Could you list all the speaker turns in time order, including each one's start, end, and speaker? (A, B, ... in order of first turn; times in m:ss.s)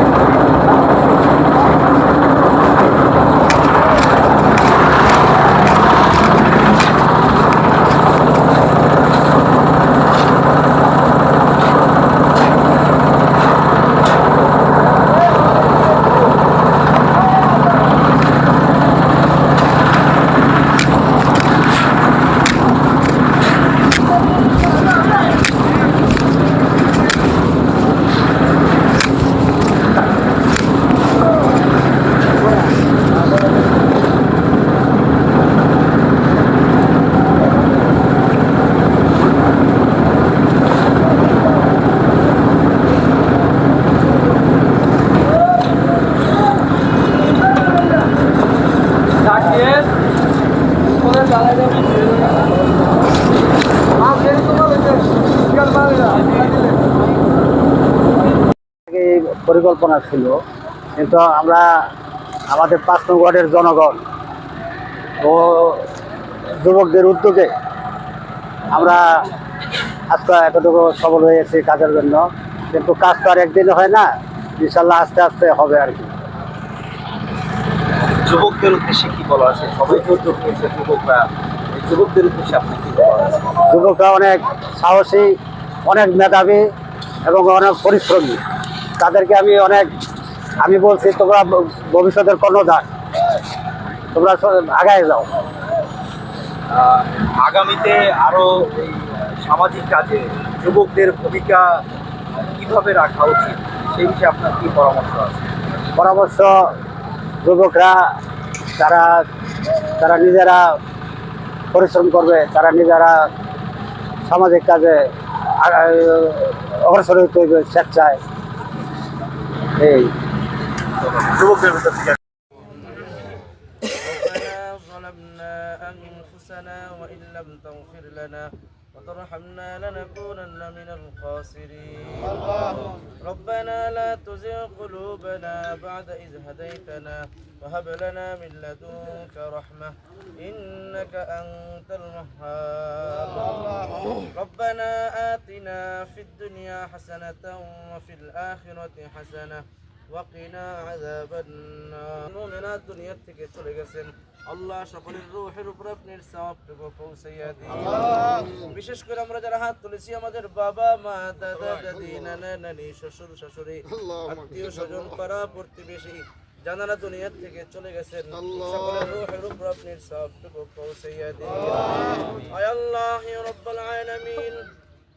0:49.3-0:49.9 A
0:51.3-0:52.0 A
0:54.1-0:54.8 A
0:56.0-0:56.5 A
0:58.8-1:00.4 B
1:00.9-1:01.9 B
1:02.5-1:04.0 B
1:05.2-1:05.9 B
1:06.5-1:07.5 B
1:08.7-1:09.3 B
1:10.1-1:16.1 B
1:18.2-1:23.4 A
1:23.5-1:26.6 B
1:27.2-1:28.4 B
1:29.0-1:29.9 B
1:30.6-1:32.9 B
1:34.1-1:35.4 B
1:36.7-1:41.8 A
1:42.4-1:45.5 A
1:45.9-1:46.7 B
1:47.4-1:48.1 B
1:48.8-1:50.8 B
1:51.7-1:53.3 B
1:54.2-1:58.2 B
1:59.8-2:00.2 B
2:01.1-2:02.2 A
2:03.9-2:54.7 C